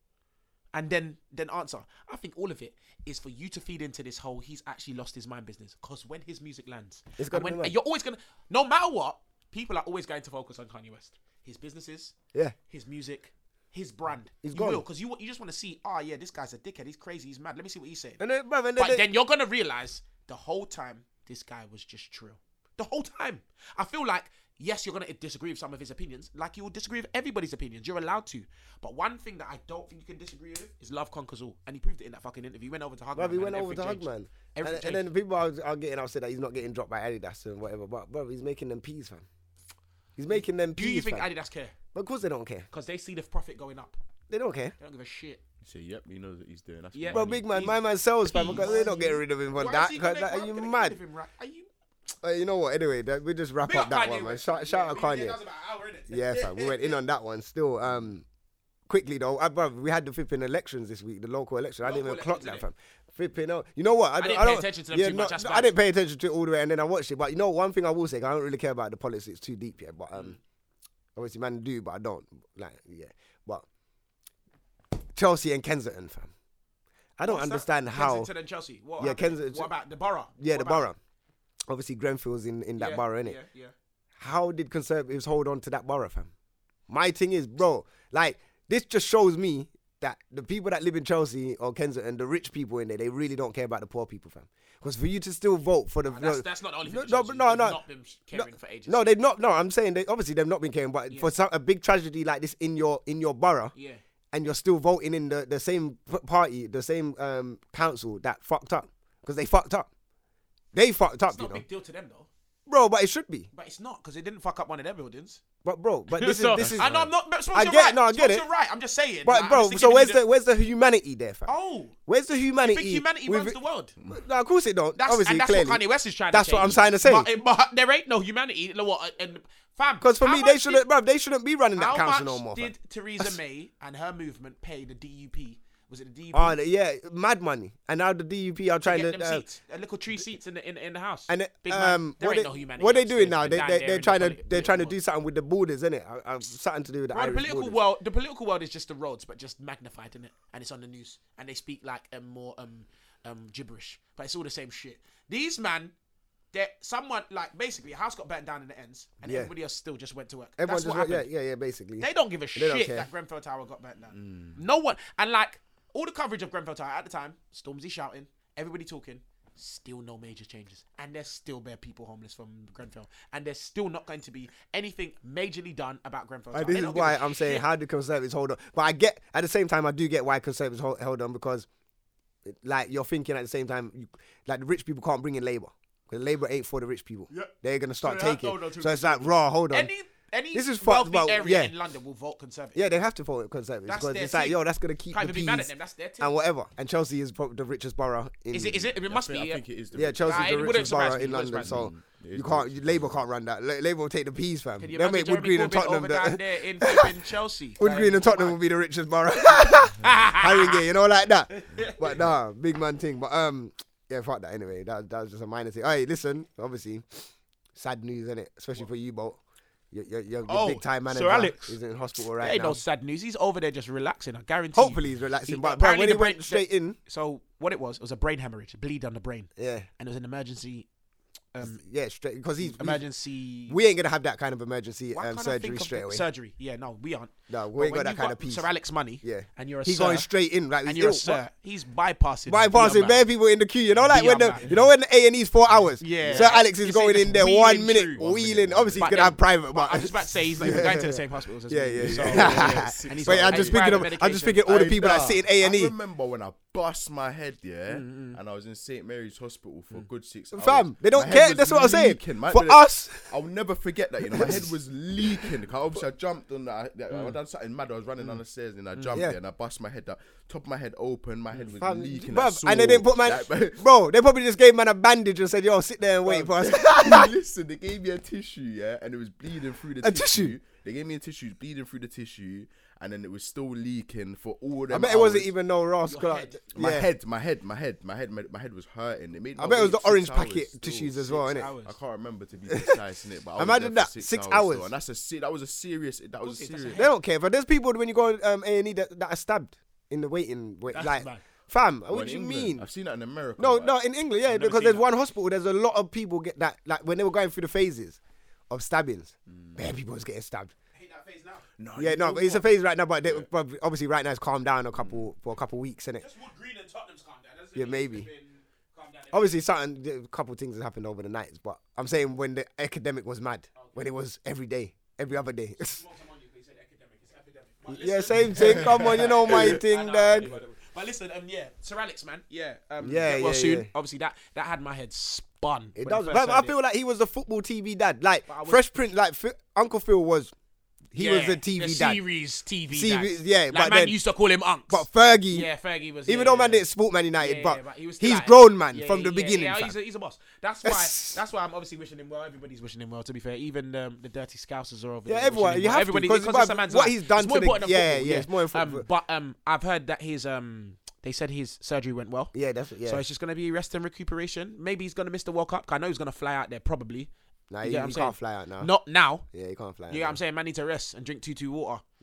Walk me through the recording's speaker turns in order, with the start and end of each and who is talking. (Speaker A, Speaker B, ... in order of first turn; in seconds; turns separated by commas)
Speaker A: 0.7-12.1, Speaker B: 7.2-7.7, Speaker A: 12.7-18.2, Speaker B: 14.4-14.8, Speaker B: 18.2-19.0, Speaker A: 18.8-35.1, Speaker B: 33.1-39.2, Speaker B: 40.1-41.3, Speaker A: 40.7-41.7, Speaker B: 41.9-42.7, Speaker A: 42.7-44.0, Speaker B: 44.3-44.7, Speaker A: 44.8-45.4, Speaker C: 45.6-47.5, Speaker A: 46.9-51.7, Speaker B: 47.1-51.0, Speaker B: 52.2-55.4, Speaker A: 53.6-57.0, Speaker B: 56.1-58.2, Speaker B: 58.9-70.4, Speaker A: 61.8-62.6, Speaker A: 64.2-65.7, Speaker B: 71.2-73.6, Speaker B: 75.1-76.3, Speaker B: 77.2-78.3, Speaker A: 77.2-80.8, Speaker B: 79.0-79.7, Speaker B: 80.4-81.0, Speaker B: 81.7-83.4, Speaker A: 82.8-83.7, Speaker B: 84.2-86.3, Speaker B: 86.9-97.8, Speaker A: 96.0-99.1, Speaker B: 98.3-103.7, Speaker A: 103.7-104.0, Speaker B: 104.3-109.9, Speaker B: 110.7-111.6, Speaker A: 111.3-112.3, Speaker B: 112.7-113.5, Speaker A: 113.5-115.4, Speaker B: 115.6-116.9, Speaker A: 116.2-120.2, Speaker C: 116.6-117.1, Speaker B: 117.5-118.5, Speaker B: 119.2-121.5, Speaker A: 121.5-121.9, Speaker B: 122.0-123.6, Speaker A: 122.6-123.9, Speaker B: 124.1-127.3, Speaker A: 125.0-130.8, Speaker B: 130.0-133.4, Speaker A: 131.8-136.6, Speaker B: 136.3-139.4, Speaker A: 138.8-144.9, Speaker B: 141.3-147.8, Speaker A: 147.1-155.9, Speaker A: 156.5-161.3, Speaker B: 159.2-159.5, Speaker B: 160.6-163.1, Speaker A: 162.0-177.6, Speaker C: 164.1-164.6, Speaker B: 176.5-181.7, Speaker B: 182.4-189.9, Speaker A: 187.3-192.9, Speaker B: 190.5-191.7, Speaker B: 192.7-198.8, Speaker A: 193.9-194.6, Speaker A: 195.1-196.3, Speaker A: 198.5-199.6, Speaker C: 198.9-203.2, Speaker B: 199.9-207.1, Speaker A: 200.2-201.8, Speaker A: 204.8-208.6, Speaker B: 207.8-219.4, Speaker A: 210.0-210.8, Speaker A: 211.5-211.9, Speaker B: 219.9-222.8, Speaker A: 220.5-221.8, Speaker A: 222.4-230.9, Speaker B: 224.7-227.0, Speaker B: 229.6-229.9, Speaker A: 231.5-231.8, Speaker B: 231.6-233.0, Speaker A: 232.6-233.8, Speaker B: 233.7-236.2, Speaker A: 235.1-240.3, Speaker B: 237.5-238.7, Speaker B: 239.2-241.4, Speaker A: 240.8-243.2, Speaker B: 242.5-255.9, Speaker A: 244.0-244.7, Speaker C: 244.6-244.9, Speaker A: 246.0-248.2, Speaker C: 246.2-246.6, Speaker C: 248.2-249.4, Speaker A: 249.0-254.7, Speaker C: 252.0-254.1, Speaker C: 254.7-273.8, Speaker A: 257.9-258.4, Speaker B: 260.5-263.3, Speaker B: 264.2-264.7, Speaker B: 271.8-277.3, Speaker C: 276.2-285.5, Speaker B: 280.0-280.5, Speaker B: 284.9-287.1, Speaker A: 286.1-286.6, Speaker C: 286.7-297.1, Speaker B: 289.6-291.7, Speaker A: 291.2-291.9, Speaker B: 292.7-293.0, Speaker B: 293.6-294.9, Speaker A: 296.4-297.1, Speaker B: 296.9-302.9, Speaker A: 300.9-301.4, Speaker C: 302.1-303.9, Speaker B: 303.6-308.2, Speaker A: 304.5-305.0, Speaker B: 308.7-310.7, Speaker C: 309.5-309.9, Speaker A: 310.9-311.6, Speaker C: 311.8-312.6, Speaker B: 311.9-316.2, Speaker C: 314.9-315.3, Speaker A: 316.2-319.6, Speaker B: 317.8-318.3, Speaker B: 319.3-326.0, Speaker A: 325.8-336.7, Speaker B: 327.9-330.5, Speaker C: 328.5-329.8, Speaker B: 333.0-333.9, Speaker B: 336.0-340.5, Speaker A: 338.5-338.8, Speaker B: 341.1-342.2, Speaker A: 341.1-346.8, Speaker B: 342.9-344.1, Speaker B: 344.9-345.7, Speaker B: 346.3-349.9, Speaker A: 347.4-362.5, Speaker B: 350.8-351.4, Speaker B: 355.3-359.0, Speaker B: 362.5-363.2, Speaker A: 363.0-367.3, Speaker B: 367.7-368.9, Speaker A: 367.8-369.4, Speaker B: 369.4-370.4, Speaker A: 370.1-372.0